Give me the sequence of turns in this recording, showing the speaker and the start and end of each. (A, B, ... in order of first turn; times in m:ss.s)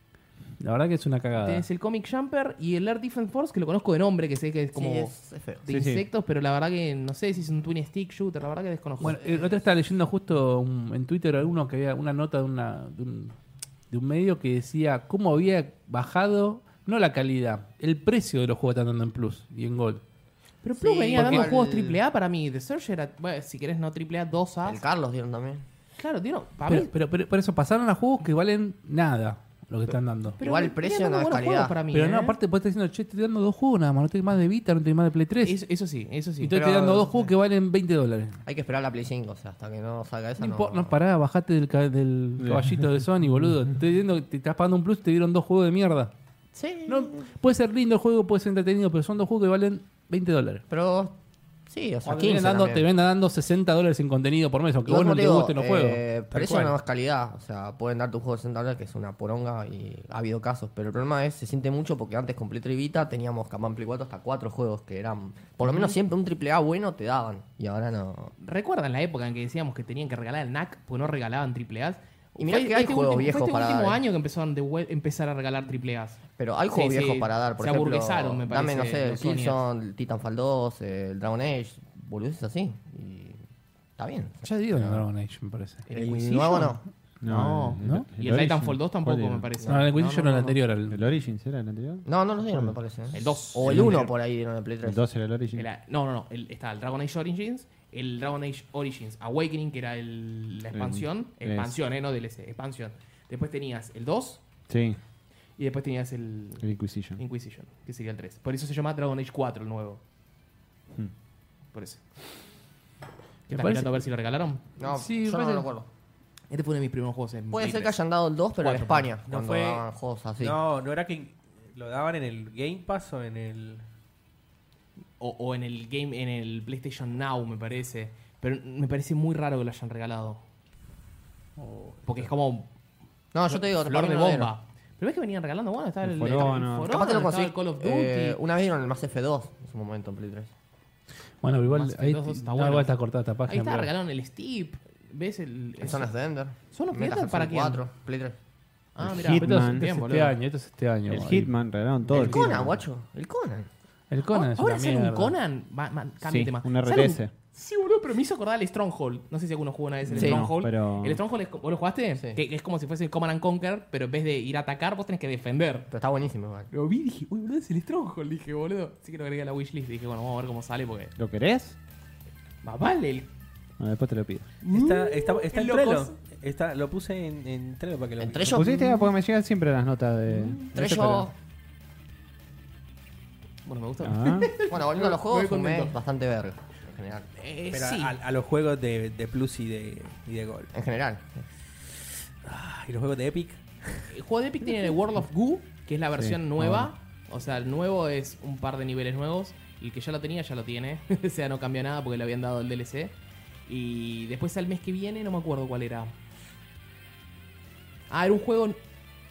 0:00.6-0:01.6 A
0:01.4-0:09.2 B
0:04.7-0:05.6 C
0:05.7-0:06.0 D
0:09.0-0:13.3 A
0:13.9-0:20.0 A
0:20.6-0:24.8 B
0:20.8-0:22.0 C
0:21.2-0:21.5 A
0:24.6-0:25.6 C
0:26.0-0:26.9 B
0:26.6-0:30.4 A
0:30.4-0:32.4 B
0:30.4-0:31.7 C
0:31.9-0:35.6 A
0:35.4-0:36.6 B
0:36.4-0:38.4 A
0:36.5-0:37.3 C
0:38.4-0:40.9 C
0:40.4-0:46.1 A
0:42.4-0:42.8 D
0:46.5-0:47.2 C
0:46.8-0:50.6 A
0:50.7-0:51.1 C
0:51.7-0:52.9 C
0:52.0-0:56.7 A
0:54.8-1:08.3 C
1:05.6-1:06.0 B
1:08.4-1:19.6 B
1:12.4-1:14.0 C
1:16.4-1:23.4 C
1:24.0-1:25.0 C
1:24.4-1:25.8 A
1:25.9-1:30.6 B
1:25.9-1:26.8 C
1:27.2-1:29.7 D
1:27.8-1:28.1 A
1:29.7-1:31.0 A
1:30.9-1:32.8 D
1:32.0-1:35.0 C
1:33.1-1:34.1 B
1:33.6-1:34.1 D
1:34.8-1:35.7 D
1:35.5-1:44.4 B
1:40.7-1:41.8 D
1:44.7-1:45.0 D
1:45.6-1:50.0 B
1:46.6-1:47.2 D
1:51.7-1:52.0 B
1:53.5-1:54.6 B
1:53.5-1:54.0 A
1:54.8-1:55.9 C
1:54.8-1:55.7 A
1:56.5-1:58.0 B
1:57.5-2:00.6 C
1:58.6-1:59.1 B
1:59.2-1:59.8 E
2:00.4-2:03.8 E
2:05.2-2:10.4 B
2:11.6-2:12.3 A
2:12.0-2:12.7 B
2:13.3-2:14.5 C
2:13.4-2:18.4 B
2:16.0-2:16.9 D
2:16.4-2:20.5 C
2:21.4-2:23.9 A
2:21.7-2:22.9 B
2:23.4-2:26.1 B
2:25.8-2:28.4 C
2:26.7-2:27.8 B
2:28.9-2:30.4 B
2:29.0-2:29.8 D
2:29.3-2:31.5 A
2:31.1-2:32.8 D
2:32.1-2:33.7 C
2:32.1-2:32.6 B
2:34.1-2:35.3 A
2:34.3-2:45.9 B
2:36.2-2:37.3 D
2:40.1-2:41.2 D
2:40.1-2:40.4 C
2:45.9-2:46.7 C
2:46.7-2:51.1 B
2:51.2-2:51.8 D
2:52.6-2:53.3 B
2:53.8-2:54.5 D
2:54.6-2:56.2 B
2:54.7-2:58.6 E
2:58.2-2:58.9 C
2:58.5-3:01.3 D
3:00.3-3:00.7 B
3:00.7-3:01.3 C
3:03.6-3:05.9 B
3:04.0-3:04.5 D
3:04.7-3:07.3 C
3:07.4-3:08.1 B
3:07.7-3:10.7 E
3:10.7-3:11.4 C
3:12.4-3:14.0 E
3:14.1-3:23.1 B
3:16.2-3:16.9 D
3:23.7-3:26.1 B
3:28.1-3:28.8 B